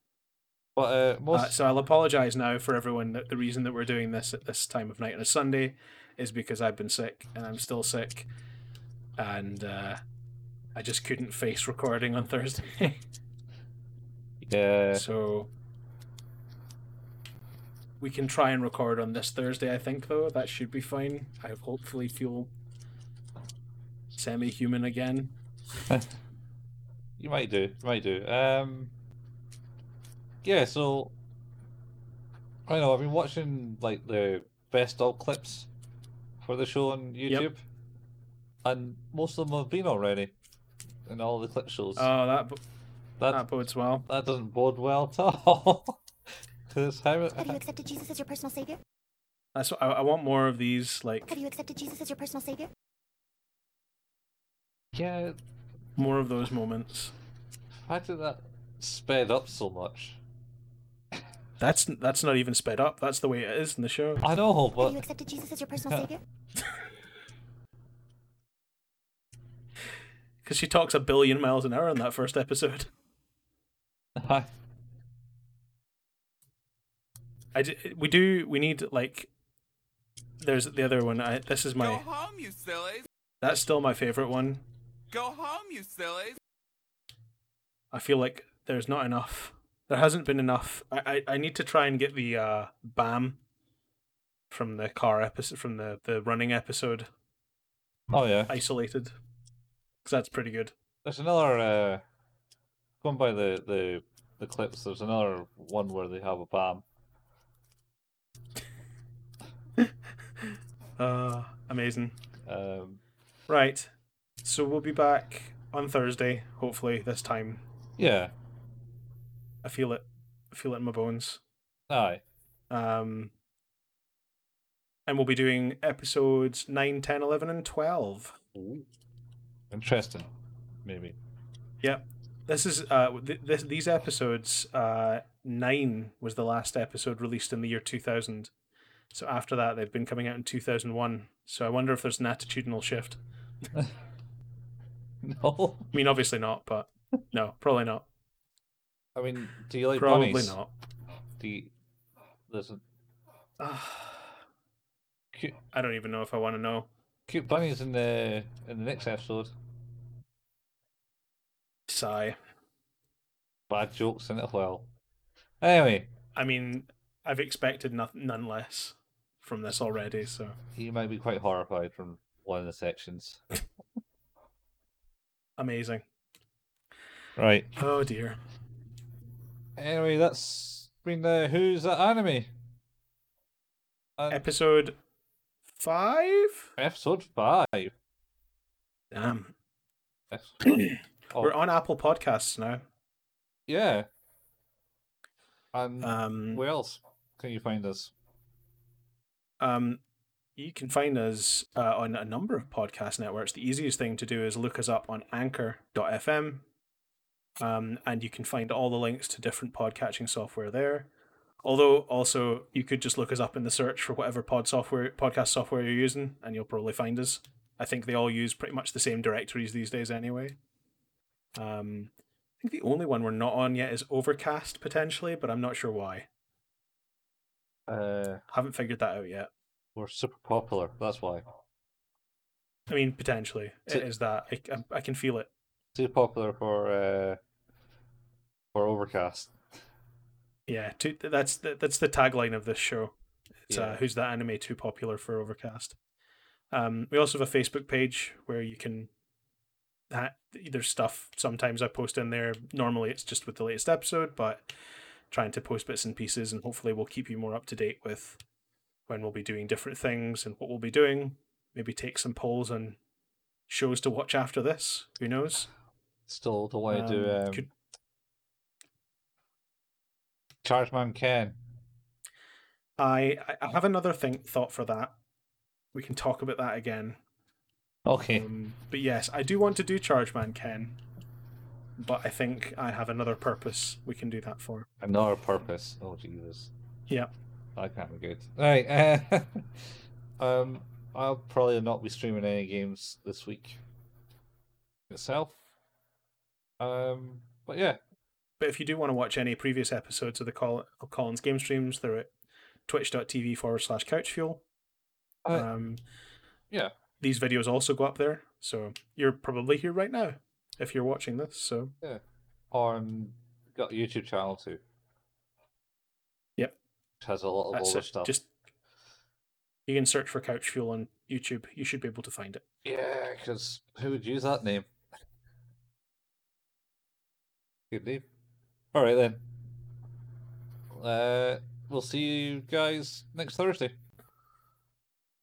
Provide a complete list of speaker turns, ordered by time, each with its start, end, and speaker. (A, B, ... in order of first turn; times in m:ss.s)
0:00.8-0:01.6 A
0:01.3-0:08.3 B
0:09.2-0:10.0 B
0:10.8-0:13.0 B
0:14.4-0:15.1 A
0:14.9-0:15.5 B
0:18.0-0:22.5 B
0:24.2-0:25.4 B
0:27.2-0:28.9 A
0:30.4-0:31.2 A
0:32.7-0:35.7 A
0:36.4-0:37.6 A
0:38.6-0:40.3 A
0:41.1-0:42.1 A
0:42.0-0:42.6 B
0:43.2-0:43.5 A
0:43.3-0:44.1 B
0:44.1-0:46.0 A
0:46.7-0:47.6 A
0:47.4-0:48.8 C
0:49.6-0:51.4 B
0:51.3-0:52.7 C
0:55.0-0:55.4 A
0:56.0-0:57.1 B
0:57.8-1:00.2 A
1:01.6-1:04.2 B
1:04.2-1:05.0 A
1:04.8-1:06.2 C
1:10.4-1:12.9 B
1:14.2-1:14.5 A
1:17.5-1:19.3 B
1:20.4-1:22.0 B
1:21.8-1:23.0 D
1:23.4-1:24.6 B
1:25.1-1:26.4 D
1:27.9-1:33.4 B
1:34.5-1:37.1 B
1:38.1-1:38.6 A
1:38.5-1:39.1 B
1:40.0-1:40.7 B
1:41.0-1:42.0 A
1:43.0-1:46.8 A
1:49.8-1:52.2 B
1:52.5-1:53.0 A
1:53.5-1:57.6 B
1:58.0-1:58.3 A
1:59.6-2:01.4 B
2:01.9-2:02.2 A
2:02.7-2:03.3 B
2:05.1-2:08.4 B
2:08.6-2:08.9 A
2:09.7-2:10.3 A
2:10.8-2:11.2 A
2:11.8-2:18.5 B
2:19.1-2:23.2 B
2:25.2-2:25.9 A
2:25.9-2:28.1 B
2:29.2-2:30.6 A
2:30.0-2:30.7 B
2:31.4-2:31.7 A
2:32.5-2:32.8 A
2:33.6-2:34.3 B
2:35.7-2:36.9 B
2:37.3-2:39.5 A
2:41.9-2:42.4 B
2:43.7-2:44.9 A
2:45.6-2:46.1 A
2:46.4-2:50.6 B
2:50.8-2:53.4 A
2:55.6-2:56.0 B
2:57.4-2:57.7 A
2:57.8-2:58.4 B
2:59.8-3:02.5 A
3:04.2-3:04.4 A
3:04.3-3:05.0 B
3:05.8-3:06.7 B
3:06.8-3:07.9 A
3:09.1-3:09.5 B
3:10.3-3:10.8 A
3:10.6-3:12.8 B
3:13.7-3:14.1 A
3:15.7-3:18.1 A
3:16.0-3:16.6 B
3:19.6-3:20.0 B
3:20.6-3:26.6 B
3:27.6-3:31.1 B
3:31.6-3:40.6 B
3:41.6-3:46.3 B
3:47.9-3:48.4 A
3:48.5-3:49.5 B
3:50.0-3:51.4 A
3:52.9-3:55.5 B
3:56.0-3:57.4 A
3:58.7-3:59.5 A
4:00.7-4:03.1 B
4:03.7-4:06.0 B
4:03.7-4:04.0 A
4:06.7-4:09.1 B
4:10.1-4:14.7 B
4:15.3-4:18.4 B
4:19.1-4:23.0 B
4:23.7-4:25.7 B
4:26.3-4:27.7 A
4:26.9-4:27.7 B
4:30.6-4:31.6 A
4:33.0-4:35.2 B
4:35.9-4:37.2 B
4:38.1-4:38.5 A
4:38.3-4:41.0 B
4:42.0-4:44.9 B
4:45.0-4:46.7 A
4:47.8-4:53.8 A
4:55.1-4:55.6 A
4:56.8-4:58.0 A
4:58.6-5:02.3 B
5:02.9-5:04.6 B
5:05.5-5:06.0 B
5:07.2-5:11.9 B
5:12.7-5:14.8 A
5:17.2-5:18.3 A
5:17.7-5:18.5 B
5:19.9-5:22.6 B
5:22.8-5:24.9 A
5:27.9-5:28.3 A
5:28.9-5:29.4 A
5:30.9-5:34.0 A